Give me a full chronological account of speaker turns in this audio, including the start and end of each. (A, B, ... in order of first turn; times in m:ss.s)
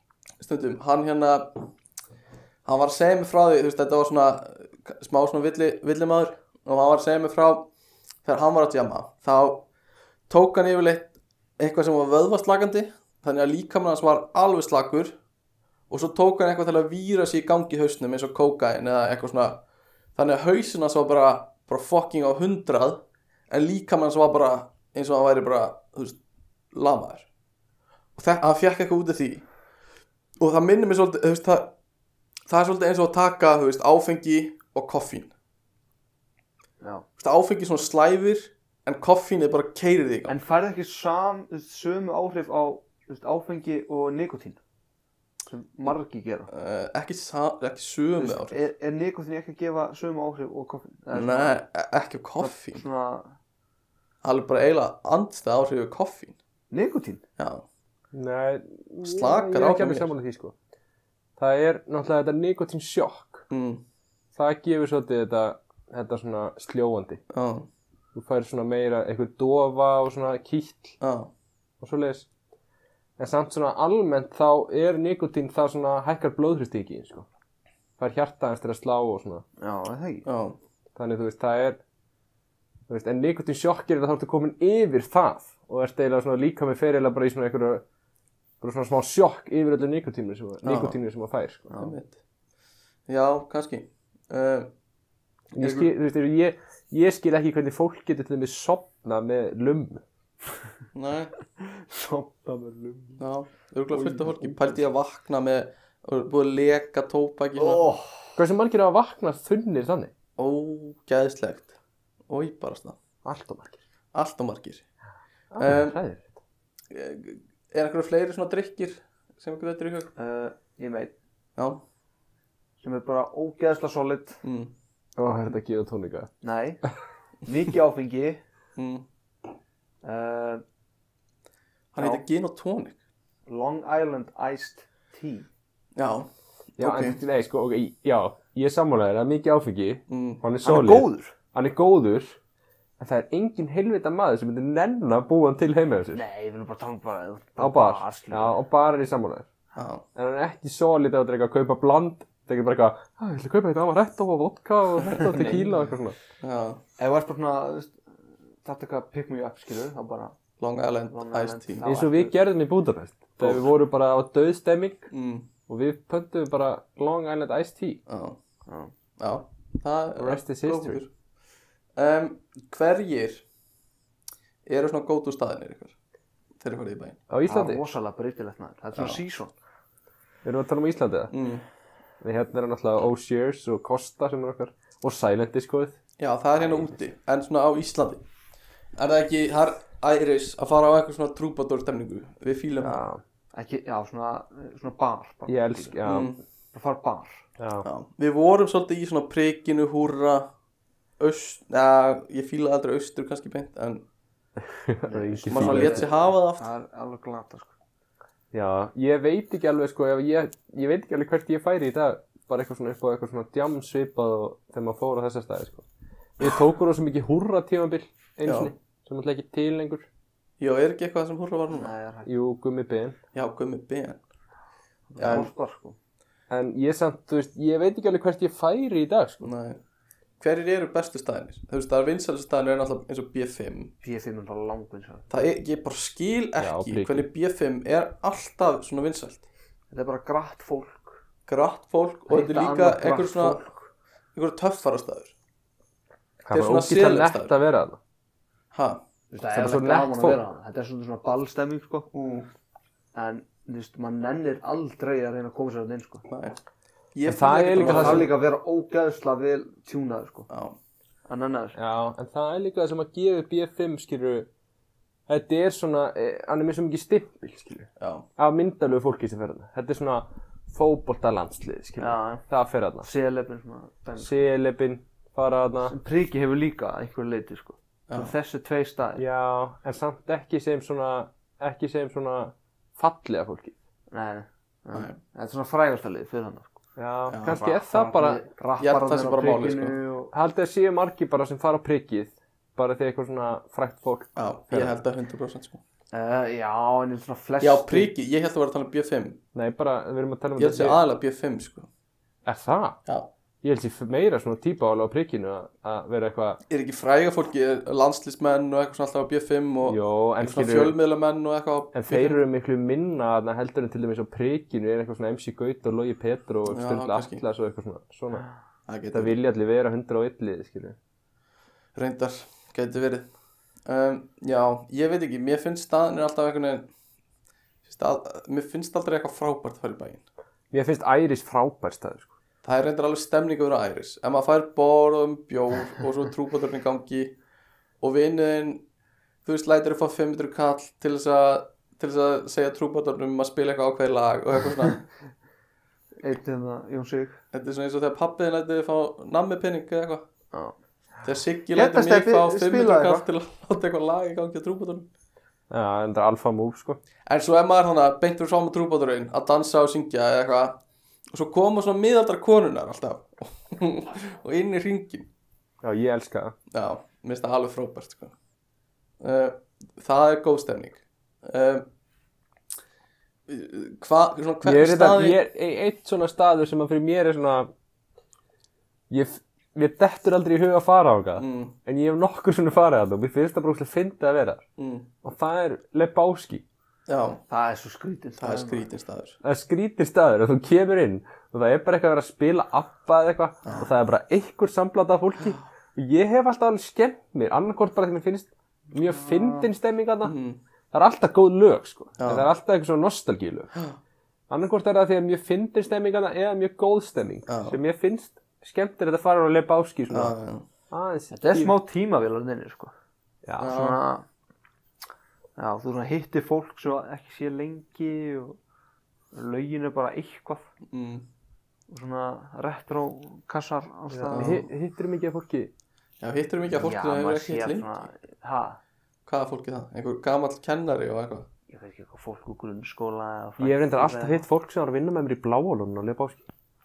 0:00.4-0:01.6 A
0:02.6-0:07.7 A
0:08.2-0:09.7 A
0:10.3-0:15.2 A
0:15.9-0:19.6 A
0:20.2-0:26.2 A
0:26.7-0:27.3 A
0:28.2-0:29.4 A
0:30.4-0:31.7 A
0:32.5-0:35.3 A
0:36.8-0:37.1 B
0:37.2-0:40.4 A
0:40.3-0:44.6 B
0:45.5-0:46.5 B
0:46.5-0:48.6 A
0:48.2-0:51.6 B
0:51.1-0:52.8 A
0:52.4-0:53.4 B
0:54.2-0:56.4 A
0:56.7-0:57.2 B
0:57.4-0:57.6 A
0:58.1-1:00.5 C
0:59.0-1:00.1 A
1:01.4-1:03.4 C
1:03.5-1:03.8 A
1:04.4-1:07.2 C
1:07.3-1:07.7 A
1:08.1-1:11.0 C
1:11.0-1:11.3 A
1:11.8-1:12.3 C
1:13.2-1:17.3 C
1:18.0-1:19.4 C
1:19.6-1:20.3 B
1:20.3-1:20.6 A
1:21.0-1:21.8 C
1:22.9-1:27.8 C
1:28.6-1:31.7 C
1:30.6-1:31.0 A
1:31.7-1:31.9 B
1:31.8-1:32.2 A
1:33.1-1:34.7 A
1:35.6-1:40.0 C
1:35.6-1:35.9 A
1:40.9-1:41.3 A
1:41.6-1:43.2 B
1:43.2-1:47.9 A
1:43.9-1:44.8 B
1:47.6-1:48.3 B
1:48.4-1:50.1 C
1:50.4-1:51.8 A
1:52.3-1:53.0 A
1:53.2-1:53.8 C
1:54.1-1:54.8 A
1:55.5-1:56.3 C
1:55.6-1:56.0 A
1:56.9-2:00.1 A
2:00.2-2:01.1 B
2:01.6-2:01.8 A
2:02.8-2:04.4 B
2:04.4-2:04.7 A
2:05.2-2:06.3 C
2:06.4-2:06.8 B
2:07.4-2:08.4 B
2:08.8-2:09.1 A
2:10.0-2:10.6 B
2:11.9-2:13.0 A
2:13.5-2:15.5 B
2:15.9-2:17.2 A
2:16.8-2:22.4 C
2:20.1-2:20.4 A
2:20.6-2:21.4 B
2:23.0-2:26.2 C
2:26.1-2:28.6 B
2:27.6-2:29.5 C
2:29.8-2:30.0 A
2:30.2-2:36.2 C
2:35.2-2:35.9 B
2:36.4-2:36.8 A
2:37.0-2:38.0 B
2:38.6-2:40.4 B
2:40.6-2:41.8 A
2:41.1-2:42.3 B
2:41.8-2:45.1 C
2:43.4-2:43.6 A
2:45.1-2:45.5 A
2:45.7-2:48.0 C
2:48.1-2:48.4 A
2:48.7-2:48.9 B
2:49.2-2:51.1 A
2:50.2-2:51.0 C
2:52.0-2:53.4 A
2:54.6-2:55.9 A
2:56.6-2:57.2 A
2:57.3-2:57.8 C
2:57.5-2:59.5 B
3:00.4-3:01.3 C
3:01.3-3:01.6 A
3:02.2-3:06.0 C
3:06.2-3:08.2 A
3:09.0-3:13.0 A
3:12.8-3:13.2 C
3:13.5-3:16.0 B
3:15.5-3:16.3 C
3:16.0-3:16.4 A
3:16.7-3:17.5 B
3:17.6-3:17.9 C
3:17.8-3:20.5 A
3:21.2-3:24.0 A
3:24.7-3:26.1 C
3:25.1-3:27.7 B
3:25.5-3:26.6 A
3:28.5-3:35.8 C
3:36.4-3:40.1 C
3:38.4-3:38.7 A
3:40.6-3:41.9 A
3:41.7-3:42.3 B
3:42.2-3:43.2 C
3:43.3-3:44.2 A
3:45.1-3:46.0 B
3:45.2-3:45.5 A
3:46.5-3:49.5 C
3:49.4-3:49.8 A
3:50.4-3:53.9 A
3:54.0-3:55.3 B
3:55.3-3:59.5 A
3:56.6-3:57.2 C
3:59.9-4:01.2 B
4:01.5-4:03.6 A
4:02.3-4:03.9 B
4:04.3-4:05.3 A
4:06.4-4:08.0 C
4:06.5-4:07.5 A
4:08.7-4:09.0 A
4:09.3-4:12.5 B
4:09.5-4:10.4 C
4:13.2-4:16.2 B
4:16.3-4:16.6 A
4:17.1-4:18.3 A
4:17.2-4:18.3 C
4:17.8-4:20.5 B
4:20.5-4:20.8 A
4:21.3-4:21.8 B
4:21.8-4:24.5 C
4:25.3-4:33.1 C
4:28.0-4:28.2 A
4:32.0-4:32.4 B
4:33.0-4:34.4 B
4:34.2-4:35.9 C
4:35.9-4:39.2 B
4:38.1-4:38.3 A
4:39.2-4:43.8 C
4:44.1-4:46.8 B
4:44.9-4:45.2 A
4:47.0-4:48.5 C
4:47.3-4:47.7 A
4:47.4-4:50.3 B
4:48.8-4:50.0 A
4:50.3-4:55.0 C
4:54.4-4:55.8 A
4:56.1-4:58.1 B
4:57.6-4:59.4 A
4:59.5-5:01.0 C
5:00.6-5:01.9 A
5:02.5-5:03.0 C
5:03.6-5:06.6 C
5:06.7-5:12.4 A
5:09.8-5:11.0 C
5:11.9-5:18.5 C
5:16.7-5:17.4 A
5:18.9-5:19.4 A
5:19.1-5:21.0 C
5:22.0-5:23.3 A
5:23.8-5:26.9 A
5:27.8-5:30.2 A
5:30.7-5:32.3 C
5:32.6-5:37.4 A
5:38.0-5:38.8 A
5:39.4-5:45.1 A
5:46.2-5:47.4 B
5:47.5-5:50.2 A
5:51.2-5:55.1 A
5:51.7-5:53.2 B
5:55.7-5:57.0 C
5:57.2-6:00.8 A
6:01.3-6:05.3 A
6:05.8-6:06.5 C
6:06.7-6:08.3 A
6:09.2-6:11.9 A
6:13.5-6:15.4 A
6:14.6-6:17.7 C
6:19.1-6:24.6 C
6:21.4-6:21.8 A
6:24.8-6:25.1 A
6:25.2-6:26.6 C
6:27.1-6:27.4 A
6:27.5-6:28.9 B
6:28.4-6:29.4 A
6:29.4-6:40.4 C
6:40.2-6:40.6 A
6:40.9-6:43.7 C
6:42.2-6:42.5 A
6:44.5-6:50.4 C
6:47.5-6:47.8 A
6:50.1-6:50.6 A
6:50.9-6:51.8 C
6:51.3-6:52.9 B
6:53.5-6:53.8 C
6:53.6-6:54.0 A
6:53.6-6:54.3 B
6:55.6-6:58.6 B
6:59.3-7:00.7 B
7:00.9-7:01.3 A
7:01.9-7:04.7 B
7:04.1-7:05.7 C
7:06.2-7:08.0 A
7:06.8-7:08.8 B
7:09.2-7:11.5 A
7:11.7-7:14.4 B
7:13.6-7:16.4 C